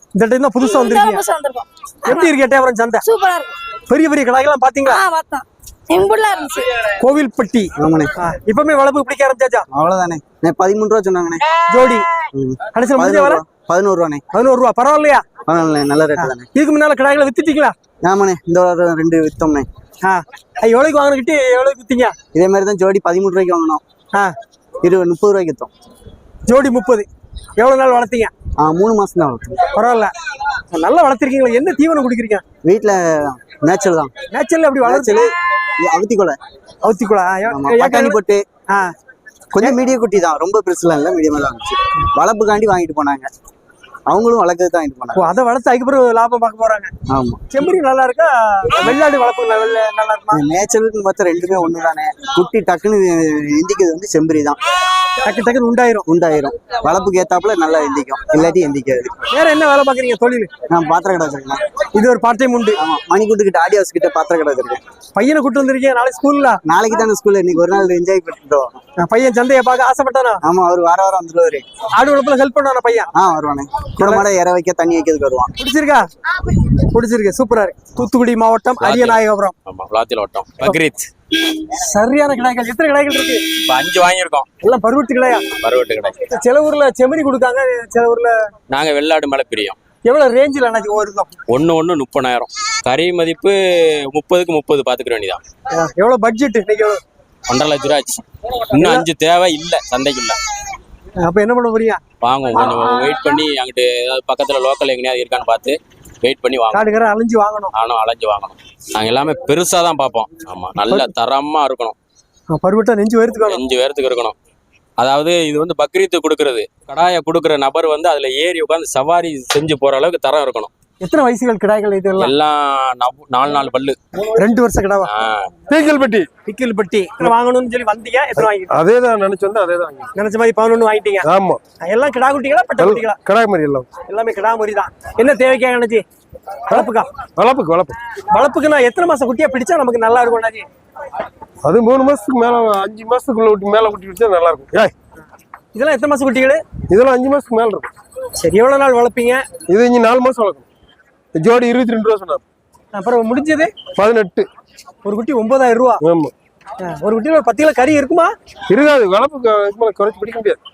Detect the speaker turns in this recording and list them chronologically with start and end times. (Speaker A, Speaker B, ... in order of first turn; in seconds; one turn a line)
Speaker A: 0.1-1.2
Speaker B: 0.6-2.3
Speaker A: 2.0-3.0
Speaker B: 3.0-3.5
Speaker A: 3.9-5.0
Speaker B: 4.8-6.9
Speaker A: 7.0-9.7
Speaker C: 7.8-8.1
Speaker C: 9.7-11.4
Speaker A: 11.7-12.1
Speaker C: 12.3-14.2
Speaker A: 12.7-13.4
Speaker A: 14.3-15.2
Speaker C: 15.4-16.5
Speaker A: 16.2-17.7
Speaker C: 18.0-19.7
Speaker A: 20.0-22.1
Speaker C: 22.3-23.8
Speaker C: 24.8-25.7
Speaker A: 26.5-27.1
Speaker A: 27.6-28.3
Speaker C: 28.6-29.6
Speaker A: 29.7-30.1
Speaker A: 30.7-32.4
Speaker C: 32.6-34.1
Speaker A: 34.3-35.3
Speaker C: 34.8-36.4
Speaker A: 36.8-38.2
Speaker C: 37.5-38.4
Speaker C: 39.5-43.3
Speaker C: 44.1-45.3
Speaker A: 45.1-46.9
Speaker C: 47.1-47.4
Speaker A: 47.5-50.4
Speaker C: 50.3-54.6
Speaker A: 55.2-56.0
Speaker C: 56.1-59.2
Speaker A: 59.3-60.5
Speaker C: 60.7-61.6
Speaker A: 61.9-62.8
Speaker C: 62.8-64.8
Speaker A: 65.1-66.6
Speaker C: 66.6-68.8
Speaker A: 69.0-70.4
Speaker C: 70.4-71.6
Speaker A: 71.9-73.1
Speaker C: 73.2-75.5
Speaker A: 74.0-74.2
Speaker A: 75.6-76.0
Speaker A: 76.8-79.5
Speaker D: 78.8-81.1
Speaker A: 81.8-83.4
Speaker D: 83.7-84.5
Speaker A: 84.6-85.4
Speaker D: 85.6-86.2
Speaker A: 86.3-88.3
Speaker D: 88.7-89.8
Speaker A: 90.0-91.3
Speaker D: 91.5-93.5
Speaker D: 94.1-95.4
Speaker A: 95.7-97.0
Speaker D: 97.5-98.2
Speaker D: 98.7-100.4
Speaker A: 98.8-99.0
Speaker A: 101.2-102.0
Speaker D: 102.2-106.8
Speaker A: 102.5-102.9
Speaker A: 106.7-107.7
Speaker D: 107.7-111.9
Speaker A: 112.5-113.6
Speaker D: 113.5-114.3
Speaker D: 115.0-120.7
Speaker A: 121.0-122.3
Speaker D: 122.2-124.0
Speaker A: 124.3-125.1
Speaker D: 125.1-125.5
Speaker E: 125.7-126.3
Speaker A: 126.4-128.7
Speaker E: 128.7-130.1
Speaker A: 130.1-131.3
Speaker E: 131.2-131.6
Speaker A: 131.8-133.2
Speaker E: 132.8-133.9
Speaker A: 134.0-136.0
Speaker A: 136.7-137.1
Speaker E: 137.4-137.9
Speaker A: 138.3-140.7
Speaker E: 141.6-144.9
Speaker A: 145.7-146.6
Speaker E: 146.9-147.9
Speaker A: 148.4-149.4
Speaker E: 149.7-150.6
Speaker E: 151.4-152.4
Speaker A: 152.9-153.7
Speaker E: 153.9-154.4
Speaker A: 155.0-156.0
Speaker E: 156.0-156.3
Speaker A: 156.8-158.3
Speaker E: 158.7-160.6